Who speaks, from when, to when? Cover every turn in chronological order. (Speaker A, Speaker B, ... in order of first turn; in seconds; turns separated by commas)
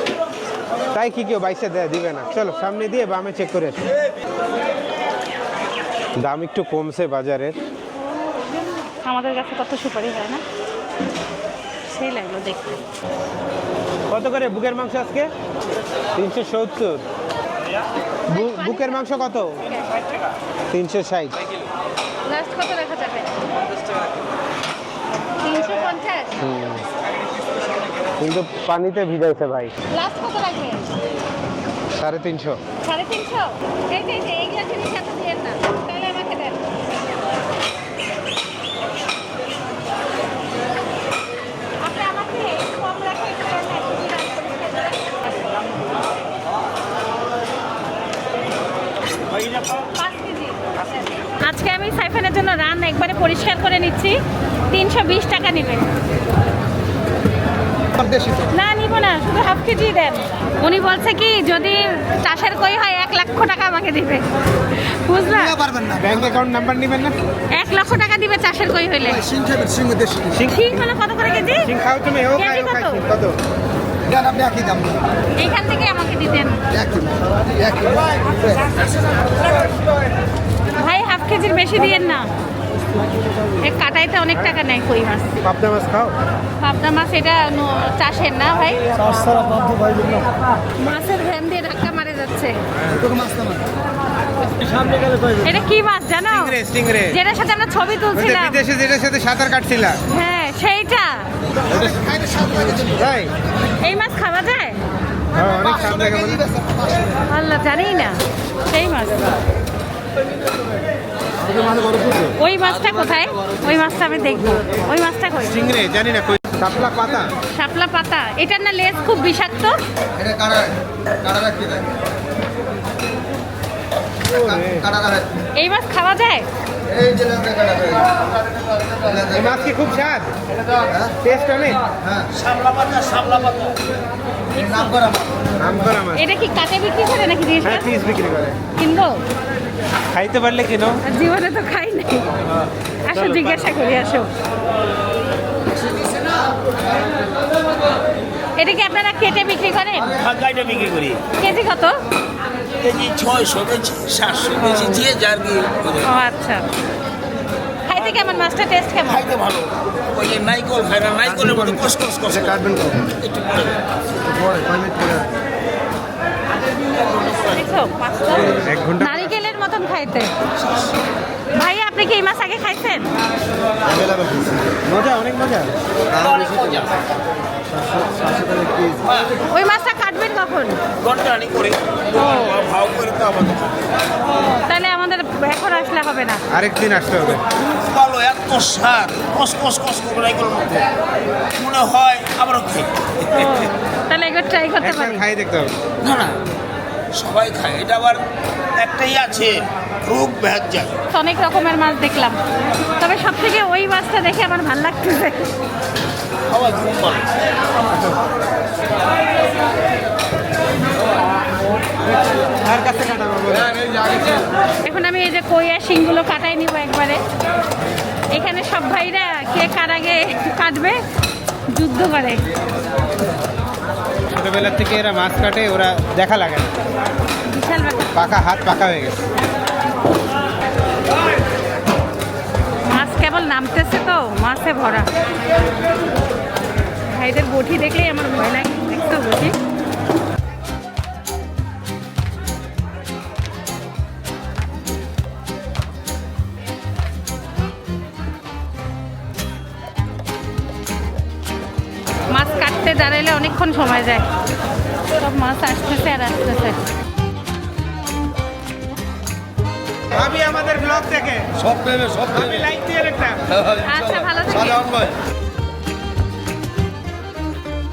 Speaker A: 0.9-3.8, Speaker A: 6.2-7.5, Speaker B: 8.8-10.4, Speaker B: 11.9-12.8, Speaker A: 14.1-15.3, Speaker A: 16.1-17.0, Speaker B: 18.3-20.1, Speaker A: 18.3-19.6, Speaker A: 20.7-21.4, Speaker B: 22.2-23.4, Speaker B: 25.4-26.4, Speaker A: 26.4-26.9, Speaker A: 28.2-29.7, Speaker B: 29.9-30.9, Speaker A: 31.9-32.6, Speaker B: 32.8-36.6, Speaker B: 41.8-45.7, Speaker B: 49.8-54.2, Speaker B: 54.7-55.9, Speaker B: 58.5-64.3, Speaker B: 64.8-65.6, Speaker A: 65.9-67.2, Speaker B: 67.5-69.3, Speaker A: 70.3-70.8, Speaker B: 70.5-71.7, Speaker A: 71.6-73.4, Speaker B: 72.3-73.0, Speaker B: 75.4-76.6, Speaker B: 78.1-78.9, Speaker B: 80.8-82.3, Speaker B: 83.6-85.4, Speaker A: 85.4-86.2, Speaker B: 86.6-89.8, Speaker B: 90.8-92.6, Speaker A: 92.8-93.3, Speaker B: 95.3-96.5, Speaker A: 96.2-97.2, Speaker B: 97.1-98.6, Speaker A: 98.1-100.0, Speaker B: 100.1-101.3, Speaker A: 101.7-103.3, Speaker B: 103.8-104.8, Speaker A: 105.3-106.5, Speaker B: 107.3-109.3, Speaker B: 112.3-115.6, Speaker A: 115.5-117.3, Speaker B: 117.5-119.8, Speaker A: 124.3-125.0, Speaker B: 125.5-126.5, Speaker A: 129.2-130.3, Speaker A: 131.2-131.8, Speaker C: 132.3-133.8, Speaker B: 134.6-134.9, Speaker A: 135.6-136.3, Speaker B: 136.1-137.9, Speaker A: 137.6-138.6, Speaker B: 138.8-139.2, Speaker A: 140.1-141.0, Speaker B: 141.0-142.3, Speaker B: 143.0-144.3, Speaker A: 143.1-143.8, Speaker B: 148.6-150.2, Speaker C: 150.1-151.2, Speaker B: 151.4-152.0, Speaker C: 152.8-156.1, Speaker B: 156.0-156.6, Speaker B: 157.9-159.3, Speaker C: 159.1-163.8, Speaker C: 164.4-165.2, Speaker B: 167.5-170.3, Speaker A: 168.5-169.4, Speaker B: 171.5-173.1, Speaker A: 174.8-175.8, Speaker C: 176.1-177.0, Speaker C: 178.3-179.4, Speaker B: 179.5-180.8, Speaker C: 181.0-183.7, Speaker B: 182.2-182.4, Speaker B: 184.5-186.4, Speaker A: 186.5-187.4, Speaker C: 187.6-190.9, Speaker C: 191.5-192.9, Speaker B: 193.3-195.2, Speaker A: 194.8-195.7, Speaker C: 196.0-196.3, Speaker C: 197.1-198.2, Speaker C: 198.7-200.9, Speaker B: 201.1-202.4, Speaker B: 203.0-205.5, Speaker C: 206.5-207.3, Speaker A: 212.6-214.2, Speaker B: 214.8-217.2, Speaker B: 218.3-221.0, Speaker B: 221.7-222.4, Speaker A: 224.3-226.8, Speaker B: 227.5-228.1, Speaker A: 228.1-229.2, Speaker B: 232.8-235.1, Speaker B: 237.1-239.5, Speaker B: 252.3-254.3, Speaker B: 255.1-256.8, Speaker A: 260.1-261.5, Speaker C: 261.8-262.2, Speaker A: 262.3-263.5, Speaker B: 263.8-265.0